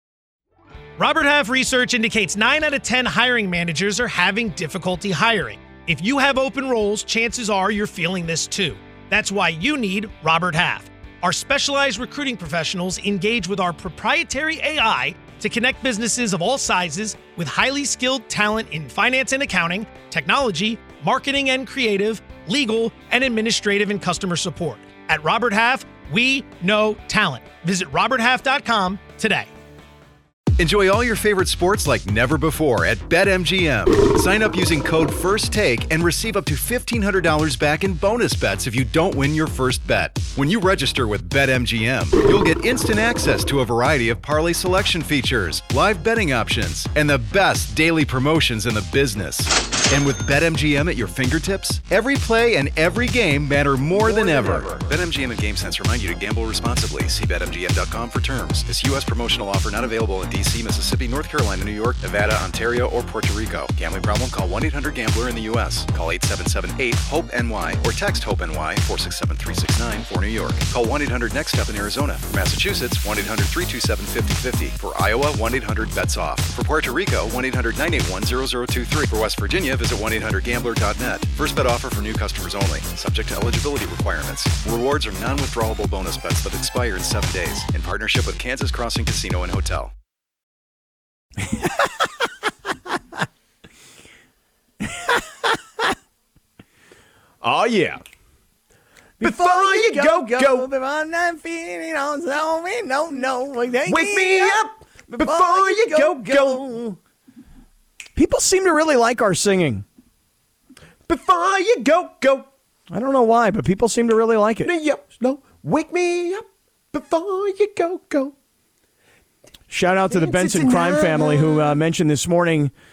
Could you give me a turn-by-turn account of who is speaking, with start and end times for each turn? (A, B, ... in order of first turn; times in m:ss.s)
0:01.0-0:29.5 A
0:30.6-1:29.9 B
0:54.0-0:54.9 C
1:34.9-1:35.6 D
1:37.4-1:38.0 C
1:39.2-1:47.0 D
1:39.2-1:40.7 C
1:43.9-1:46.7 C
1:48.2-1:49.8 D
1:51.1-1:52.5 C
1:52.9-1:54.7 D
1:54.6-1:58.3 C
1:59.7-2:02.7 D
2:00.1-2:01.8 C